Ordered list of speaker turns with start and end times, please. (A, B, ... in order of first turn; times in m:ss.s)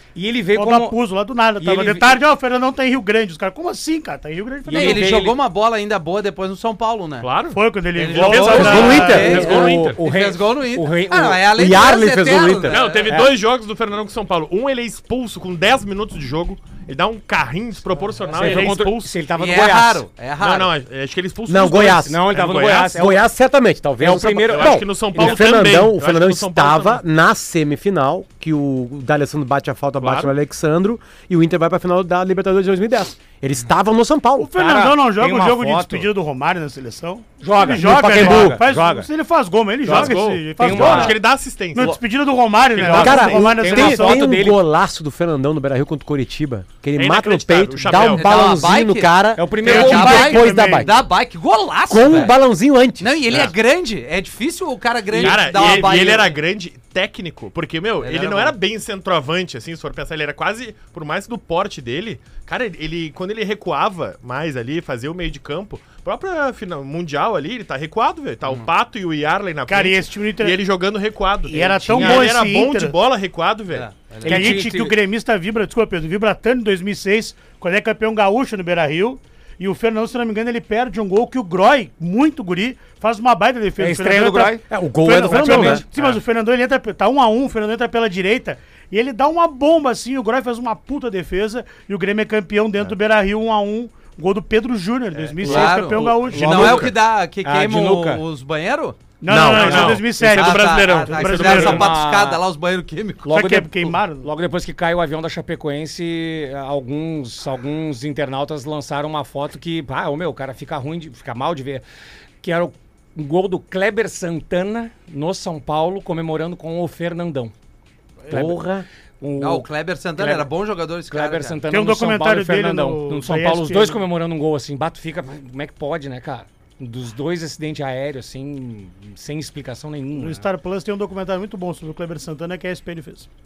0:00.1-0:01.0 A
0:00.5-0:05.0 B
0:01.6-0:02.2 A
0:04.6-0:05.4 A
0:04.7-0:07.3 C
0:07.2-0:10.0 D
0:07.5-0:09.4 B
0:08.0-0:13.1 C
0:08.4-0:09.7 E
0:09.2-0:11.4 A
0:11.5-0:12.8 E
0:12.7-0:19.1 D
0:13.1-0:13.3 A
0:18.3-0:20.1 A
0:18.4-0:18.7 E
0:19.4-0:20.7 C
0:20.4-0:23.0 D
0:21.5-0:22.2 E
0:22.0-0:23.2 A
0:22.9-0:34.5 E
0:24.0-0:25.6 A
0:24.5-0:27.0 D
0:30.0-0:30.3 D
0:34.4-0:41.2 B
0:34.6-0:36.1 A
0:37.4-0:39.1 A
0:37.8-0:38.6 E
0:39.8-0:42.0 D
0:39.9-0:41.2 A
0:41.7-0:44.2 B
0:42.7-0:43.4 D
0:42.8-0:44.6 A
0:42.9-0:50.9 E
0:47.0-0:48.5 D
0:47.9-0:52.3 C
0:49.4-0:50.4 A
0:49.6-0:50.9 B
0:51.9-0:53.5 E
0:53.0-0:56.4 C
0:55.1-1:13.9 D
0:58.0-0:58.6 C
1:09.7-1:10.6 B
1:11.5-1:13.0 B
1:11.5-1:12.2 A
1:13.7-1:14.6 C
1:14.2-1:15.0 A
1:14.3-1:36.9 B
1:23.8-1:24.6 A
1:24.7-1:25.8 E
1:25.2-1:25.8 A
1:35.1-1:35.6 D
1:35.4-1:39.0 C
1:35.5-1:38.2 A
1:39.2-1:41.9 B
1:39.3-1:40.0 E
1:39.4-1:41.9 D
1:39.8-1:43.4 C
1:41.3-1:42.4 A
1:43.2-1:51.8 A
1:43.3-1:44.3 B
1:52.4-1:57.5 A
1:58.3-1:58.6 A
1:58.3-1:58.8 E
1:59.2-2:00.5 A
1:59.4-2:01.6 C
2:01.1-2:10.4 A
2:01.7-2:04.0 B
2:10.2-2:13.3 B